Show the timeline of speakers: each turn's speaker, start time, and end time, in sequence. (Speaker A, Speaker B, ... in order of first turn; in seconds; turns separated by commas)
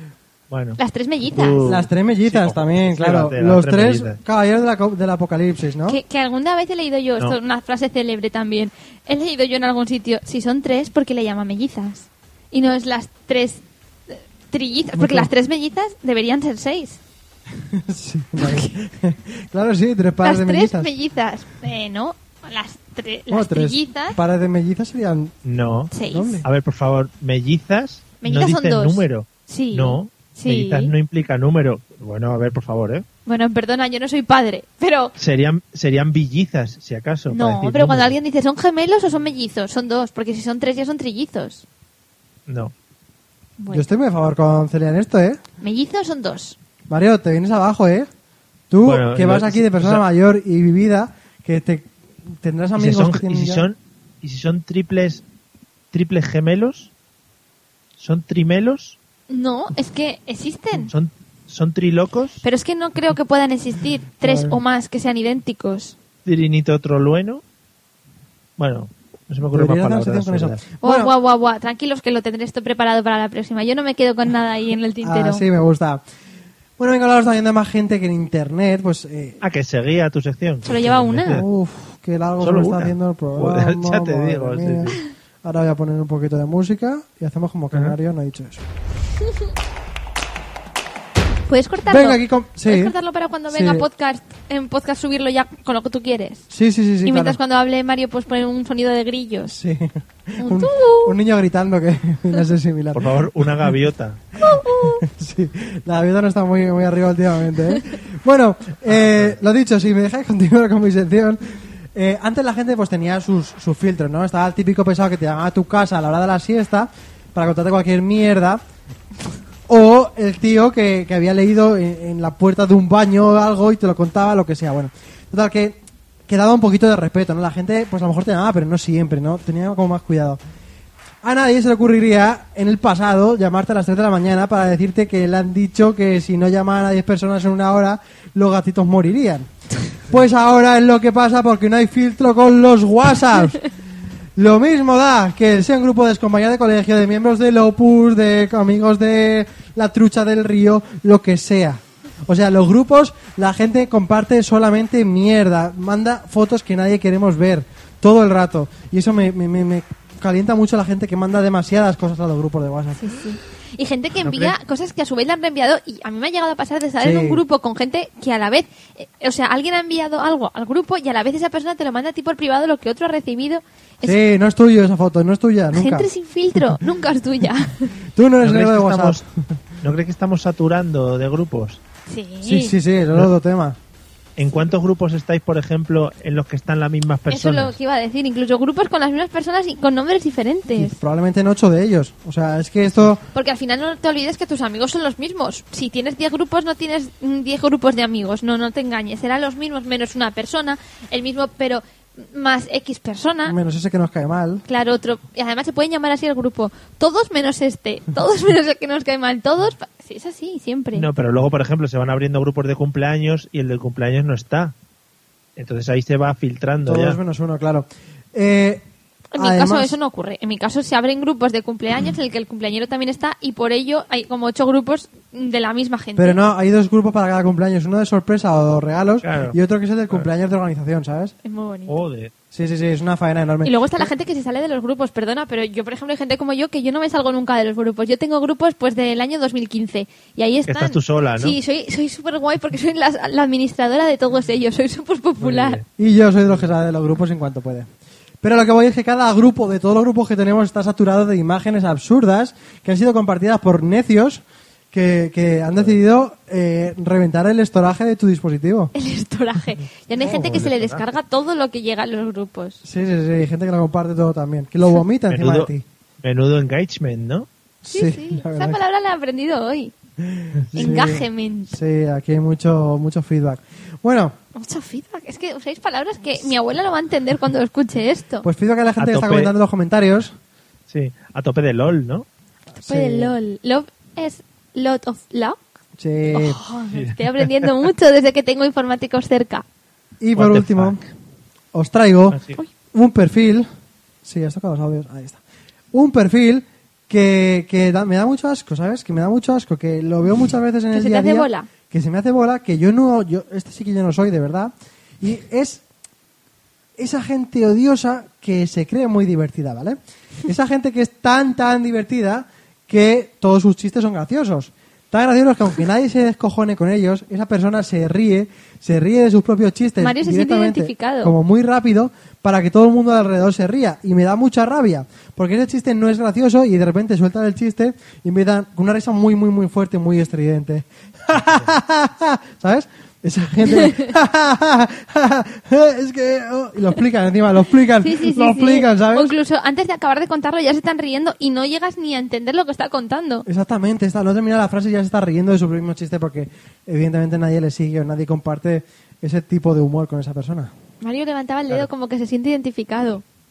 Speaker A: 0.5-0.8, Speaker B: 0.8-1.8, Speaker A: 1.3-4.2, Speaker C: 1.6-6.0, Speaker B: 5.9-17.0, Speaker C: 14.9-15.3, Speaker C: 17.6-20.9, Speaker B: 18.4-18.7, Speaker B: 20.2-24.2, Speaker C: 23.3-25.3, Speaker A: 25.4-25.9, Speaker B: 25.9-26.4, Speaker C: 26.1-26.4, Speaker A: 26.4-33.0, Speaker B: 28.2-30.9, Speaker B: 33.2-35.1, Speaker A: 35.2-38.1, Speaker B: 37.3-41.6, Speaker A: 42.5-42.7, Speaker B: 43.6-43.8, Speaker C: 43.7-45.4, Speaker B: 45.6-46.5, Speaker C: 46.9-48.1, Speaker C: 48.7-53.7, Speaker A: 48.8-50.0, Speaker A: 52.8-55.2, Speaker A: 55.9-56.9, Speaker A: 58.0-59.0, Speaker B: 59.3-60.9, Speaker A: 60.9-62.4, Speaker B: 62.4-66.0, Speaker C: 64.2-64.6, Speaker A: 66.2-67.4, Speaker A: 68.6-70.6, Speaker C: 69.5-71.1, Speaker B: 70.8-75.4, Speaker C: 75.0-76.0, Speaker C: 76.8-79.4, Speaker A: 79.4-81.4, Speaker B: 80.7-81.4, Speaker C: 81.3-84.9, Speaker A: 82.4-85.0, Speaker C: 85.4-88.6, Speaker B: 91.5-96.4, Speaker C: 91.9-92.9, Speaker C: 93.5-93.9, Speaker C: 96.5-97.4, Speaker B: 97.0-99.5, Speaker C: 99.5-103.7, Speaker B: 100.4-101.1, Speaker A: 102.9-104.3, Speaker B: 104.4-105.0, Speaker C: 104.5-118.6, Speaker A: 108.8-109.3, Speaker C: 119.7-130.4, Speaker C: 131.2-139.5, Speaker C: 140.1-143.6, Speaker C: 144.3-163.0, Speaker B: 163.0-174.2, Speaker A: 164.2-164.5, Speaker C: 167.0-167.4, Speaker C: 174.0-176.1, Speaker B: 175.7-177.9, Speaker C: 178.1-179.2, Speaker A: 178.4-179.2, Speaker A: 179.8-181.8, Speaker B: 182.1-182.8, Speaker C: 182.4-183.8, Speaker A: 184.4-187.8, Speaker B: 187.3-191.0, Speaker C: 190.7-193.2, Speaker B: 193.3-203.6, Speaker C: 203.5-204.6, Speaker B: 204.7-211.1, Speaker A: 210.9-214.7, Speaker A: 215.6-217.2, Speaker C: 216.8-218.8, Speaker B: 219.3-226.4, Speaker C: 219.4-219.9, Speaker C: 226.2-231.3, Speaker A: 229.2-229.6, Speaker B: 231.4-231.9, Speaker A: 231.9-232.3, Speaker C: 232.5-234.1, Speaker B: 233.6-245.8, Speaker A: 240.7-241.6, Speaker A: 245.4-245.8, Speaker C: 246.0-247.9, Speaker C: 248.4-258.9, Speaker B: 258.9-262.8, Speaker A: 260.2-261.0, Speaker C: 260.2-260.7, Speaker C: 262.8-265.8, Speaker A: 265.3-265.7, Speaker A: 266.2-267.5, Speaker C: 267.8-268.8, Speaker B: 267.9-269.9, Speaker C: 270.2-274.4, Speaker B: 270.7-271.8, Speaker B: 274.5-278.5, Speaker C: 278.4-280.4, Speaker A: 279.0-279.5, Speaker A: 280.9-282.2, Speaker C: 282.7-283.3, Speaker B: 282.8-285.6, Speaker C: 286.0-286.6, Speaker B: 286.3-289.6, Speaker A: 286.9-287.7, Speaker C: 290.2-291.0, Speaker A: 290.3-291.1, Speaker C: 291.7-292.4, Speaker A: 292.3-292.6, Speaker C: 292.9-293.7, Speaker C: 294.2-295.4, Speaker C: 295.9-305.8, Speaker B: 300.9-301.7, Speaker C: 307.0-339.3, Speaker B: 320.0-321.3, Speaker B: 338.0-343.4, Speaker C: 343.4-350.7, Speaker B: 351.0-353.2